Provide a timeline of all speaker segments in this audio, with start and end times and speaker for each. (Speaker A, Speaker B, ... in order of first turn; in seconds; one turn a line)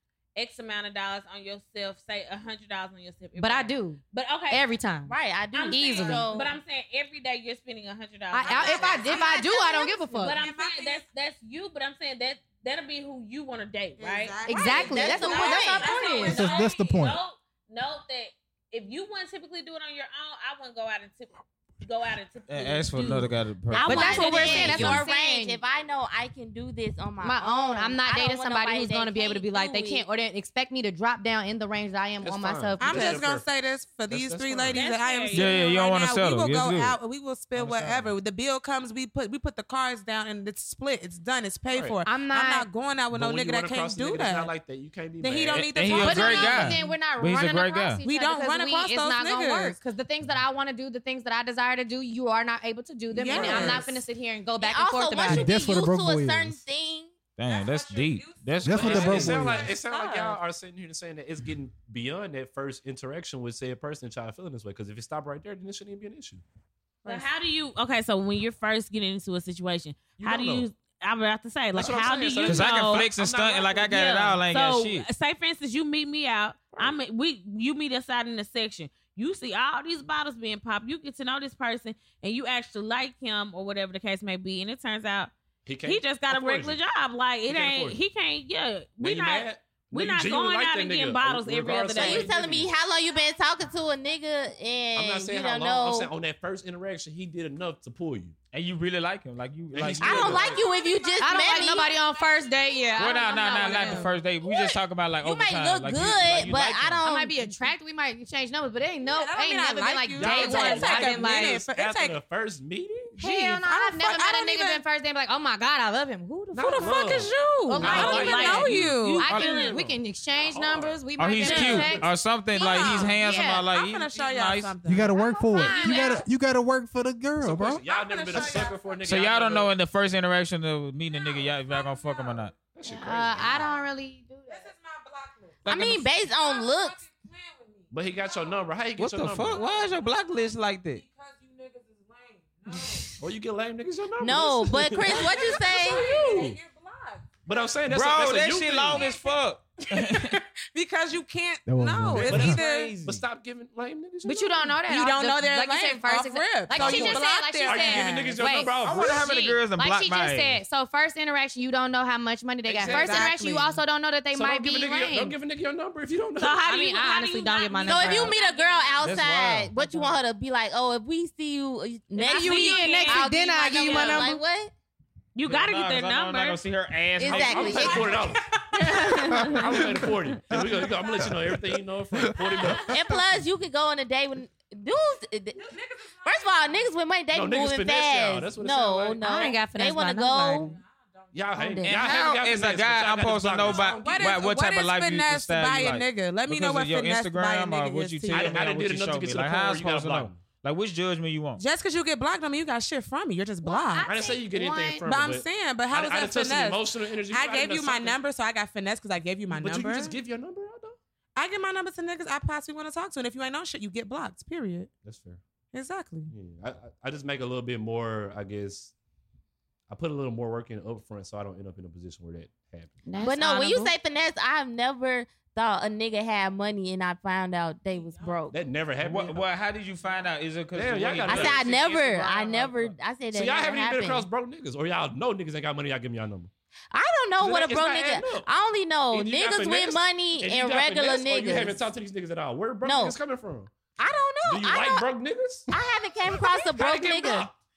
Speaker A: 0.4-4.7
Speaker B: 3.4-5.2
Speaker C: 5.1-6.5
Speaker A: 5.5-9.7
Speaker B: 5.7-6.3
Speaker B: 8.3-10.4
Speaker D: 8.5-11.1
Speaker A: 10.2-24.7
Speaker D: 14.0-16.6
Speaker B: 14.4-16.5
Speaker C: 14.8-15.9
Speaker E: 16.3-17.2
Speaker F: 22.5-25.0
Speaker C: 23.7-30.1
Speaker B: 23.8-25.6
Speaker B: 27.2-33.2
Speaker G: 32.2-33.5
Speaker D: 32.8-44.5
Speaker G: 34.1-34.9
Speaker A: 34.7-35.5
Speaker F: 35.3-37.0
Speaker G: 37.7-38.0
Speaker G: 41.7-42.0
Speaker B: 42.0-42.7
Speaker G: 43.1-46.0
Speaker D: 45.2-47.0
Speaker F: 45.7-48.0
Speaker B: 46.0-55.5
Speaker D: 48.0-49.8
Speaker D: 53.1-54.0
Speaker G: 53.3-53.9
Speaker C: 54.6-57.1
Speaker E: 55.3-56.6
Speaker F: 57.4-59.5
Speaker D: 57.4-60.4
Speaker E: 58.6-59.7
Speaker G: 58.7-66.4
Speaker A: 67.0-73.1
Speaker G: 70.2-70.7
Speaker G: 71.7-74.2
Speaker F: 72.5-75.1
Speaker A: 73.9-92.3
Speaker G: 85.7-86.8
Speaker G: 87.5-88.0
Speaker G: 89.0-92.7
Speaker C: 92.0-96.1
Speaker G: 95.0-98.3
Speaker F: 98.5-100.6
Speaker G: 99.7-100.6
Speaker C: 100.0-101.9
Speaker D: 100.5-104.1
Speaker B: 101.2-104.2
Speaker F: 103.0-107.0
Speaker C: 104.5-107.4
Speaker G: 106.1-107.0
Speaker B: 107.0-111.6
Speaker D: 109.0-112.2
Speaker G: 110.2-113.2
Speaker B: 113.2-122.1
Speaker D: 113.2-114.8
Speaker G: 116.5-122.1
Speaker D: 116.6-119.3
Speaker A: 117.8-119.8
Speaker F: 121.2-124.8
Speaker D: 122.5-126.3
Speaker B: 123.1-123.7
Speaker E: 124.8-127.8
Speaker B: 125.5-126.2
Speaker G: 127.4-129.8
Speaker D: 127.8-129.2
Speaker F: 129.1-132.5
Speaker D: 131.1-133.8
Speaker G: 132.7-133.7
Speaker B: 132.9-134.7
Speaker D: 134.5-138.7
Speaker C: 135.7-137.0
Speaker G: 137.9-139.6
Speaker F: 139.0-141.0
Speaker D: 139.4-143.2
Speaker G: 143.2-146.6
Speaker C: 144.2-146.2
Speaker D: 145.0-147.6
Speaker G: 147.5-149.1
Speaker F: 147.9-150.4
Speaker D: 148.9-153.0
Speaker E: 151.7-152.6
Speaker G: 152.2-154.8
Speaker F: 152.2-153.2
Speaker B: 154.2-158.7
Speaker D: 154.8-159.6
Speaker G: 156.7-159.3
Speaker F: 158.8-160.6
Speaker B: 159.7-165.4
Speaker G: 162.7-163.3
Speaker D: 162.8-163.8
Speaker G: 164.3-166.8
Speaker A: 166.4-169.1
Speaker B: 166.6-168.4
Speaker C: 167.8-174.7
Speaker F: 169.0-170.1
Speaker B: 172.1-174.4
Speaker A: 172.2-174.3
Speaker A: 175.3-176.6
Speaker F: 175.5-178.0
Speaker B: 177.2-178.2
Speaker C: 177.2-178.3
Speaker G: 177.3-178.4
Speaker D: 177.6-179.9
Speaker G: 179.0-182.9
Speaker E: 179.6-183.2
Speaker D: 180.5-181.2
Speaker D: 182.4-182.9
Speaker C: 182.8-185.6
Speaker D: 185.5-186.9
Speaker C: 186.2-190.8
Speaker G: 187.3-189.2
Speaker B: 189.2-190.8
Speaker D: 190.6-191.8
Speaker G: 191.3-194.4
Speaker C: 191.6-191.9
Speaker F: 191.8-201.6
Speaker D: 193.6-198.7
Speaker G: 198.3-200.4
Speaker D: 201.6-204.2
Speaker B: 203.6-205.1
Speaker G: 204.1-208.2
Speaker D: 205.0-210.2
Speaker G: 209.5-211.0
Speaker D: 211.4-214.9
Speaker G: 215.0-215.4
Speaker D: 215.7-216.3
Speaker G: 216.3-218.9
Speaker G: 219.9-223.0
Speaker B: 223.1-223.9
Speaker C: 223.2-228.6
Speaker D: 227.9-228.3
Speaker G: 228.5-229.5
Speaker F: 229.0-233.0
Speaker G: 230.7-231.8
Speaker C: 231.3-234.3
Speaker G: 233.3-236.5
Speaker C: 236.9-241.9
Speaker G: 237.4-238.5
Speaker G: 239.1-243.7
Speaker C: 242.8-243.2
Speaker C: 244.0-245.1
Speaker G: 244.4-245.7
Speaker C: 245.7-247.5
Speaker G: 246.6-247.5